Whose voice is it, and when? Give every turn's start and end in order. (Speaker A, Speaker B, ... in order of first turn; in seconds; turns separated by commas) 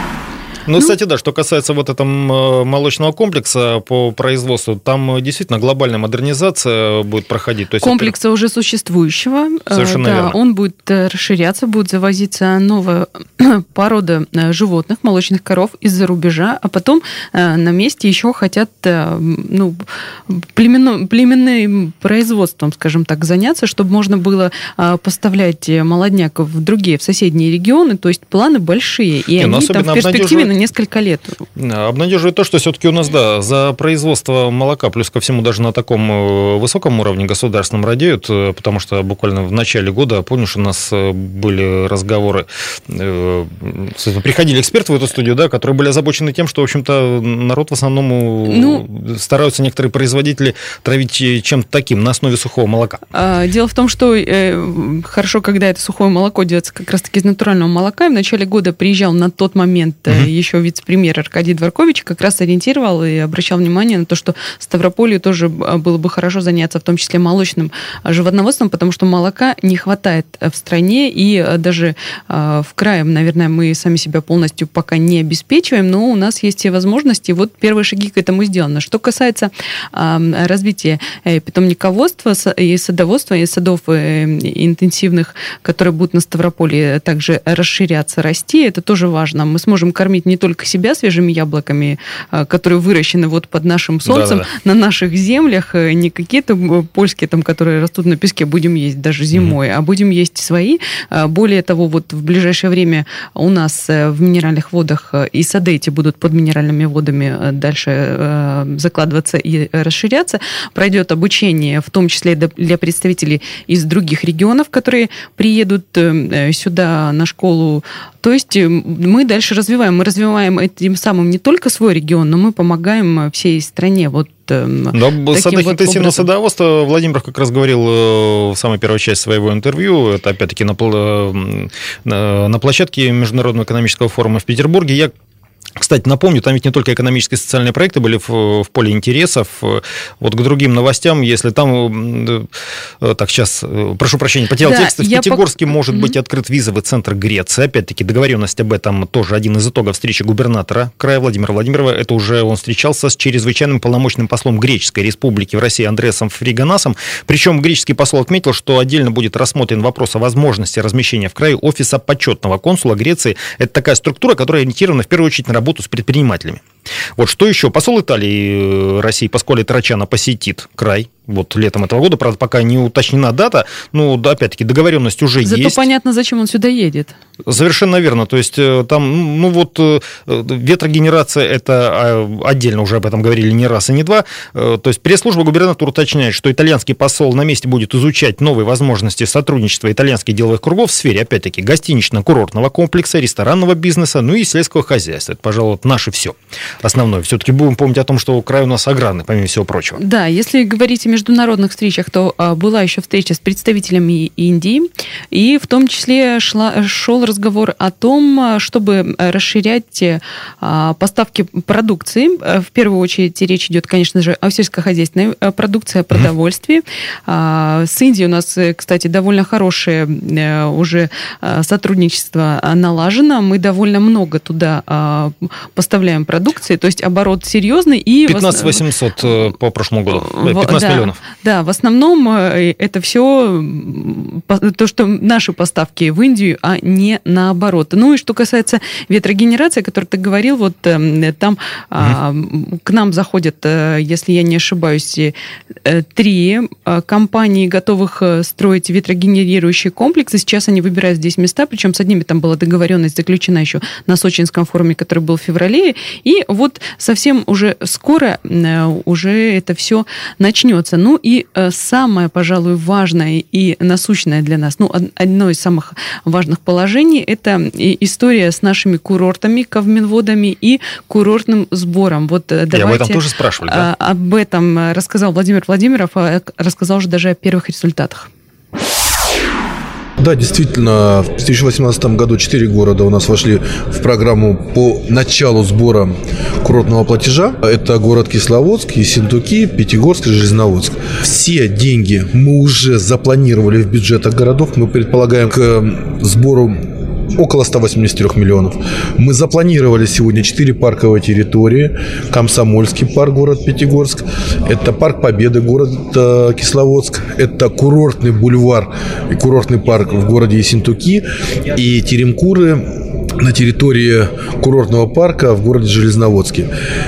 Speaker A: 0.7-8.2, Speaker B: 7.8-31.4, Speaker A: 9.7-10.4, Speaker A: 29.4-30.5, Speaker A: 31.6-53.0, Speaker B: 48.5-48.8, Speaker B: 53.1-126.3, Speaker A: 94.1-94.5, Speaker A: 124.9-135.1, Speaker A: 135.8-142.5, Speaker A: 143.0-166.6, Speaker B: 144.6-146.2, Speaker A: 167.2-175.8, Speaker B: 175.4-177.2, Speaker A: 177.5-200.0, Speaker B: 200.0-228.8, Speaker A: 228.3-231.2, Speaker B: 230.1-278.3, Speaker A: 272.7-273.9, Speaker C: 280.2-316.7